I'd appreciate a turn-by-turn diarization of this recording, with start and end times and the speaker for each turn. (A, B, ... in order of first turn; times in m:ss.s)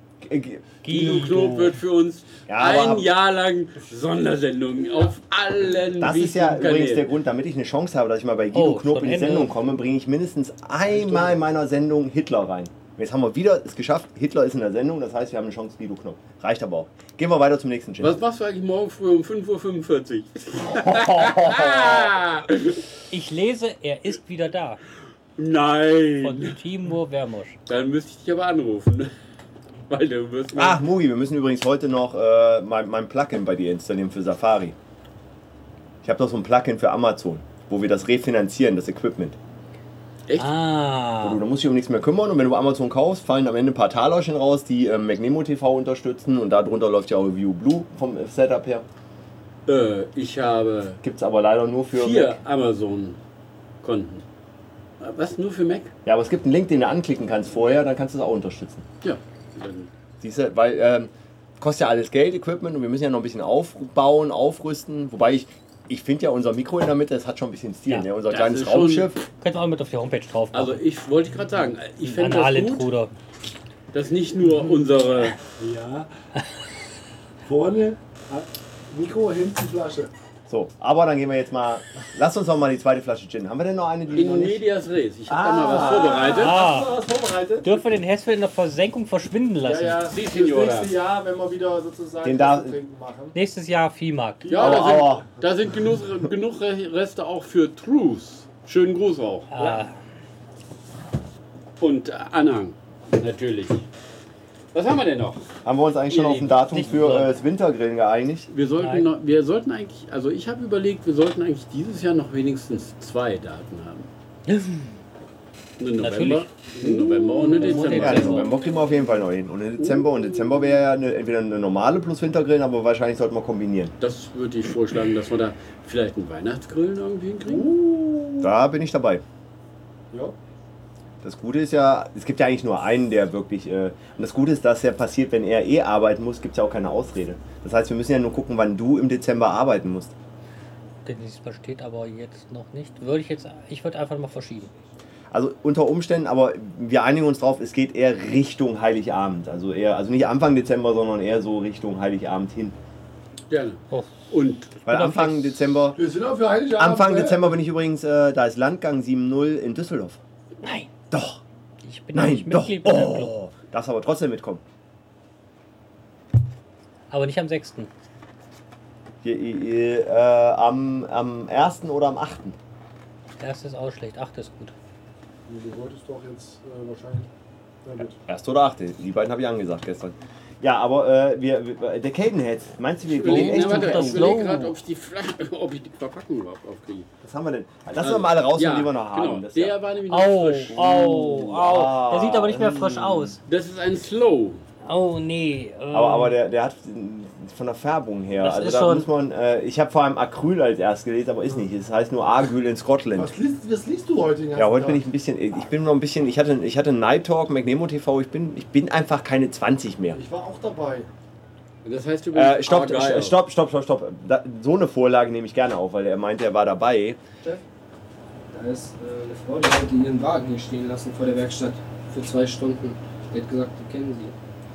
0:00.2-0:00.7 A
0:00.8-0:01.8 B
0:00.9-0:07.0 C
0:02.5-0:03.1 A
0:06.0-0:18.2 A
0:08.5-0:09.5 B
0:10.9-0:11.4 D
0:18.0-0:22.8 C
0:20.7-0:22.1 A
0:23.1-0:24.8 B
0:25.4-0:26.6 C
0:26.2-0:27.6 B
0:27.7-0:29.1 C
0:29.9-0:30.8 C
0:30.5-0:34.8 A
0:36.0-0:39.4 A
0:40.4-0:41.4 B
0:41.2-0:48.8 A
0:49.7-0:51.0 C
0:51.0-0:52.4 A
0:51.9-0:53.2 C
0:53.8-0:54.2 C
0:55.0-0:55.9 C
0:56.0-0:58.8 A
0:59.0-0:59.9 C
1:00.2-1:09.2 A
1:08.3-1:09.1 C
1:09.4-1:10.8 B
1:10.5-1:12.9 C
1:12.0-1:13.1 B
1:13.9-1:15.4 C
1:14.4-1:14.9 D
1:15.5-1:16.1 D
1:17.4-1:20.1 D
1:20.5-1:24.6 A
1:24.1-1:26.6 C
1:25.3-1:26.3 A
1:25.6-1:27.7 D
1:26.3-1:27.0 B
1:27.6-1:30.1 B
1:29.6-1:33.4 D
1:30.0-1:30.9 C
1:32.2-1:32.8 A
1:33.3-1:34.5 B
1:34.4-1:35.5 D
1:34.4-1:39.5 C
1:34.6-1:35.2 A
1:39.5-1:39.9 B
1:41.8-1:43.8 C
1:44.7-1:45.4 C
1:45.6-1:48.5 A
1:46.1-1:46.8 C
1:46.7-1:47.4 B
1:48.5-1:54.1 C
1:48.8-1:49.1 B
1:54.5-1:54.9 B
1:55.8-1:58.5 C
1:56.0-1:56.5 B
1:56.8-1:58.3 D
1:57.4-1:58.5 B
1:57.9-2:03.9 A
1:59.8-2:00.6 C
2:04.0-2:07.7 C
2:07.5-2:08.5 D
2:08.4-2:09.2 A
2:11.2-2:20.1 A
2:21.0-2:24.7 B
2:25.3-2:32.8 A
2:33.5-2:34.7 C
2:34.8-2:35.5 B
2:34.8-2:36.0 A
2:36.0-2:37.6 D
2:36.7-2:40.2 A
2:40.6-2:40.9 B
2:41.1-2:41.4 A
2:41.8-2:43.3 B
2:42.1-2:44.6 A
2:47.1-2:47.9 B
2:49.2-2:52.6 A
2:53.4-2:54.7 B
2:55.5-2:57.3 D
2:57.8-2:58.2 D
2:58.2-3:04.3 A
3:03.1-3:07.1 C
3:03.2-3:04.8 B
3:07.2-3:09.7 A
3:08.0-3:11.4 C
3:10.1-3:13.4 B
3:10.7-3:13.4 A
3:13.4-3:14.6 C
3:14.8-3:16.4 B
3:15.9-3:23.3 A
3:18.4-3:19.1 B
3:23.2-3:25.0 D
3:24.5-3:30.2 A
3:30.1-3:31.1 D
3:31.8-3:33.4 C
3:32.3-3:37.2 A
3:38.5-3:44.3 E